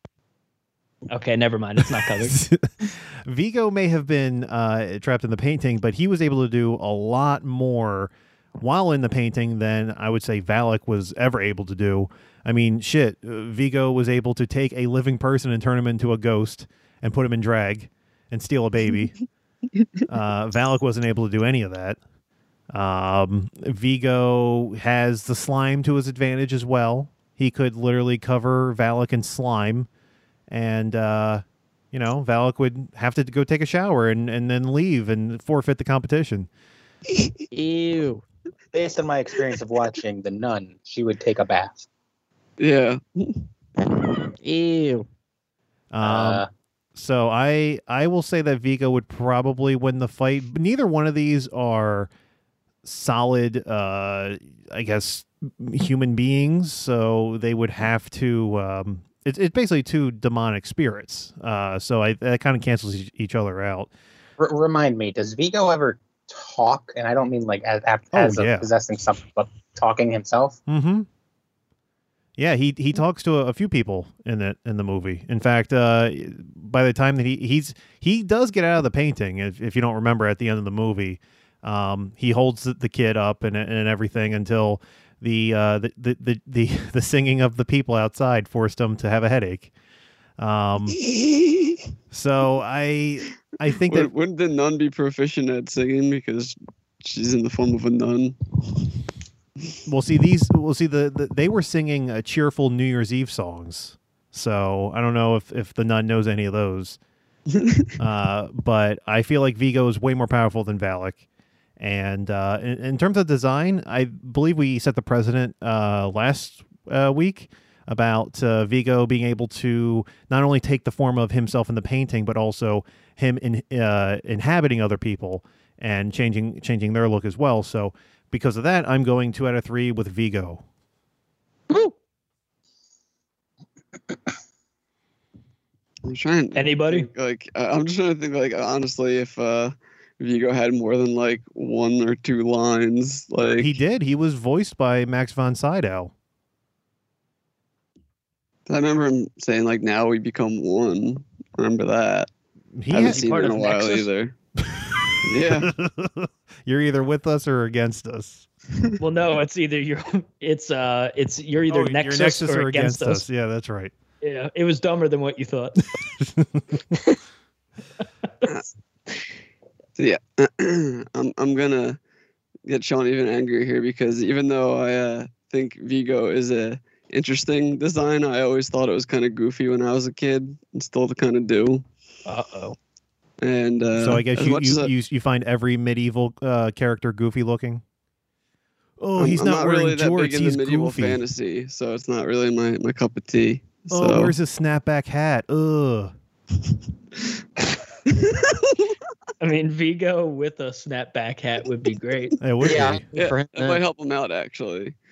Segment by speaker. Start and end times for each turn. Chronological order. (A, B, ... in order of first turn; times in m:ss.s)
0:01.1-0:02.4 A
0:02.1-0:19.1 B
0:20.1-0:22.0 B
0:22.7-0:29.9 B
0:30.5-0:36.5 B
0:37.5-0:38.2 C
0:38.7-0:41.8 D
0:42.6-0:43.5 E
0:44.4-0:45.0 C
0:45.9-0:46.4 B
0:46.0-0:46.5 D
0:46.9-0:52.1 B
0:52.8-1:03.9 B
1:04.4-1:10.6 D
1:08.1-1:08.7 B
1:10.7-1:11.1 B
1:12.4-1:29.7 B
1:30.4-1:31.0 B
1:32.1-1:34.1 B
1:33.8-1:38.4 E
1:39.8-1:47.0 B
1:47.5-1:48.0 E
1:48.0-1:51.2 B
1:51.8-2:10.6 B
2:16.0-2:23.7 E
2:16.5-2:17.1 A
2:23.5-2:26.1 B
2:28.7-2:32.3 E
2:32.8-2:33.3 B
2:32.9-2:34.4 E
2:33.0-2:34.1 A
2:34.7-2:38.4 B
2:35.2-2:35.7 E
2:39.0-2:43.3 A
2:41.7-2:43.9 B
2:44.2-2:45.8 A
2:46.2-2:46.8 B
2:50.0-2:52.0 E
2:52.6-3:01.8 E
3:02.2-3:02.8 A
3:03.4-3:04.9 E
3:03.9-3:07.8 B
3:09.0-3:11.2 B
3:09.2-3:14.3 E
3:13.9-3:16.1 B
3:18.1-3:18.9 E
3:19.4-3:22.4 A
3:22.4-3:23.0 B
3:22.6-3:23.8 C
3:22.7-3:24.9 E